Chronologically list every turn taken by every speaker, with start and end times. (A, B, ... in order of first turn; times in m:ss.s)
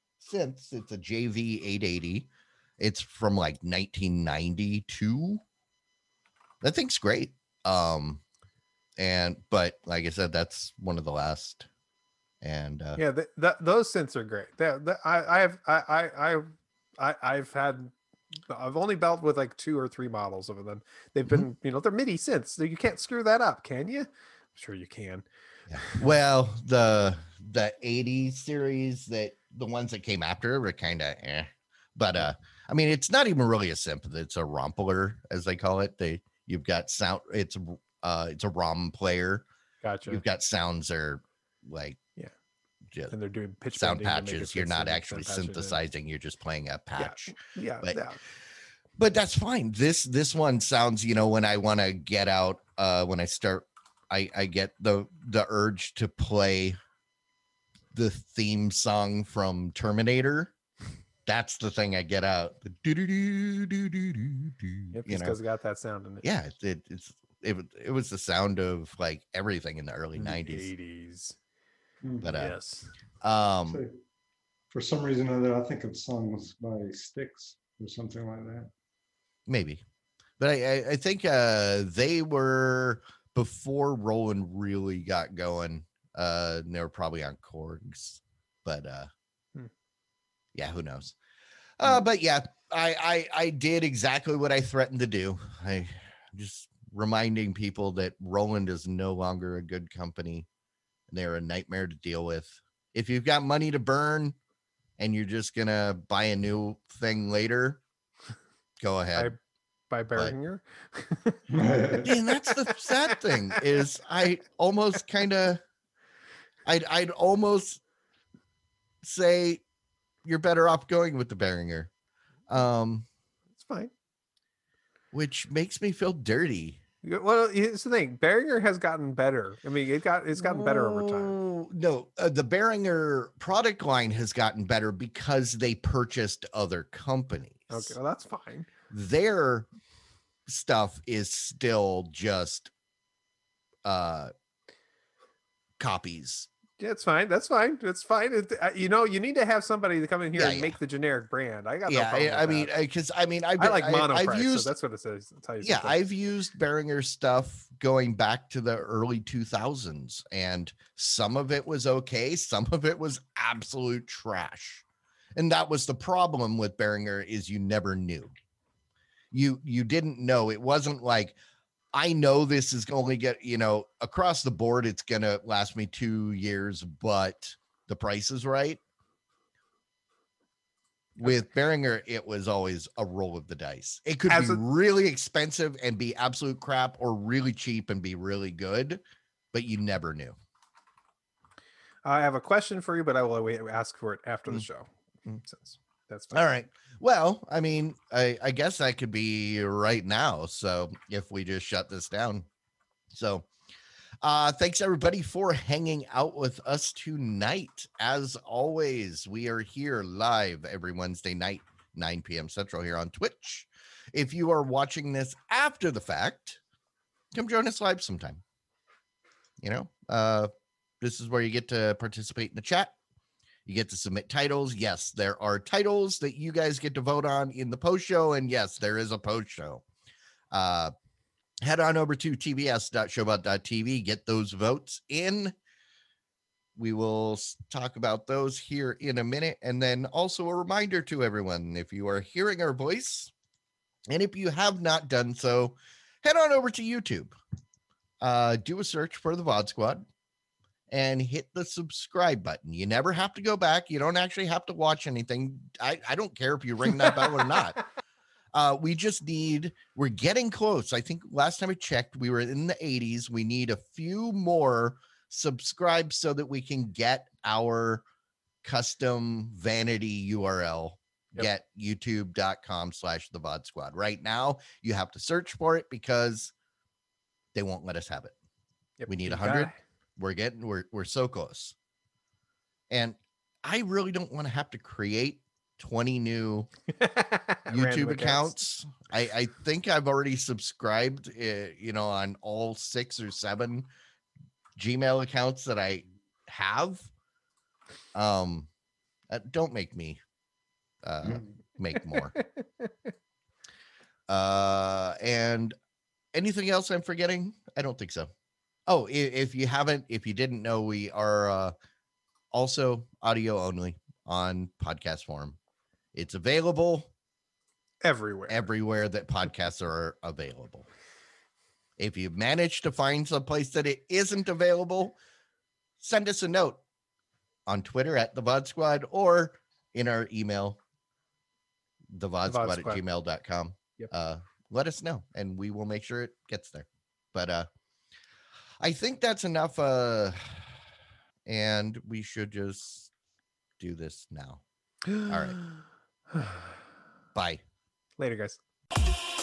0:00.2-0:02.3 A
0:02.8-0:05.4 A
0:06.6-0:08.2 A
0:09.0-0:11.7 A
0:12.4-0:13.0 A
0:13.0-0:17.9 B
0:18.5-0:26.1 B
0:25.7-0:39.4 A
0:39.8-0:40.2 B
0:40.1-0:42.0 A
0:43.1-0:45.8 B
0:43.8-0:48.0 A
0:47.0-0:48.2 B
0:49.0-0:56.8 A
0:57.9-1:00.5 A
1:01.3-1:05.4 A
1:04.9-1:06.2 B
1:06.2-1:10.7 A
1:10.2-1:11.4 B
1:12.0-1:12.4 C
1:12.2-1:12.6 A
1:12.3-1:12.9 B
1:13.2-1:13.8 A
1:13.7-1:14.0 C
1:14.7-1:18.7 C
1:19.5-1:19.8 A
1:20.4-1:29.1 A
1:30.6-1:31.2 A
1:31.8-1:40.5 A
1:41.1-1:44.4 A
1:45.0-1:47.8 A
1:48.8-1:49.3 A
1:49.9-1:51.4 B
1:51.5-1:52.1 C
1:52.0-1:55.6 A
1:52.3-1:53.8 B
1:56.6-1:57.8 A
1:59.0-1:59.6 A
2:00.2-2:01.9 A
2:02.5-2:03.1 A
2:03.6-2:03.9 B
2:05.1-2:06.8 A
2:07.0-2:11.4 B
2:10.4-2:18.0 A
2:17.7-2:18.7 B
2:18.9-2:19.7 A
2:20.5-2:22.7 A
2:23.8-2:24.3 A
2:25.8-2:26.5 A
2:26.8-2:32.7 B
2:30.4-2:30.8 A
2:31.9-2:34.7 A
2:33.6-2:36.0 B
2:35.6-2:44.8 A
2:45.4-2:48.3 A
2:49.3-2:51.4 A
2:51.9-2:58.8 A
3:01.2-3:09.0 A
3:04.3-3:04.6 B
3:09.5-3:10.4 A
3:12.0-3:16.4 B
3:16.3-3:22.5 A
3:23.1-3:23.5 A
3:24.2-3:36.6 A
3:37.3-3:38.4 A
3:39.6-3:42.9 A
3:43.7-3:49.8 A
3:50.5-3:50.9 A
3:51.6-3:55.6 A
3:56.8-4:03.3 A
4:04.1-4:07.3 A
4:08.2-4:10.1 A
4:10.9-4:17.8 A
4:18.5-4:28.0 A
4:28.6-4:36.5 A
4:37.6-4:38.4 A
4:39.0-4:39.8 B
4:39.1-4:41.8 A
4:42.9-4:46.7 A
4:47.0-4:48.6 B
4:47.7-4:53.9 A
4:54.8-4:57.1 A
4:58.1-4:58.7 A
4:59.3-5:00.2 A
5:01.0-5:02.4 A
5:02.0-5:02.9 B
5:04.3-5:05.8 A
5:06.3-5:08.3 A
5:08.9-5:11.7 A
5:12.5-5:15.6 A
5:16.1-5:17.1 A
5:18.0-5:18.7 B
5:18.5-5:20.9 A
5:22.0-5:25.2 A
5:26.0-5:26.8 A
5:27.7-5:30.8 A
5:32.1-5:37.7 A
5:32.5-5:33.0 B
5:38.8-5:40.7 A
5:41.5-5:43.1 A
5:43.8-5:44.6 A
5:45.1-5:45.6 B
5:45.2-5:45.6 A
5:46.3-5:46.6 B
5:47.4-5:47.6 A
5:48.2-5:48.6 B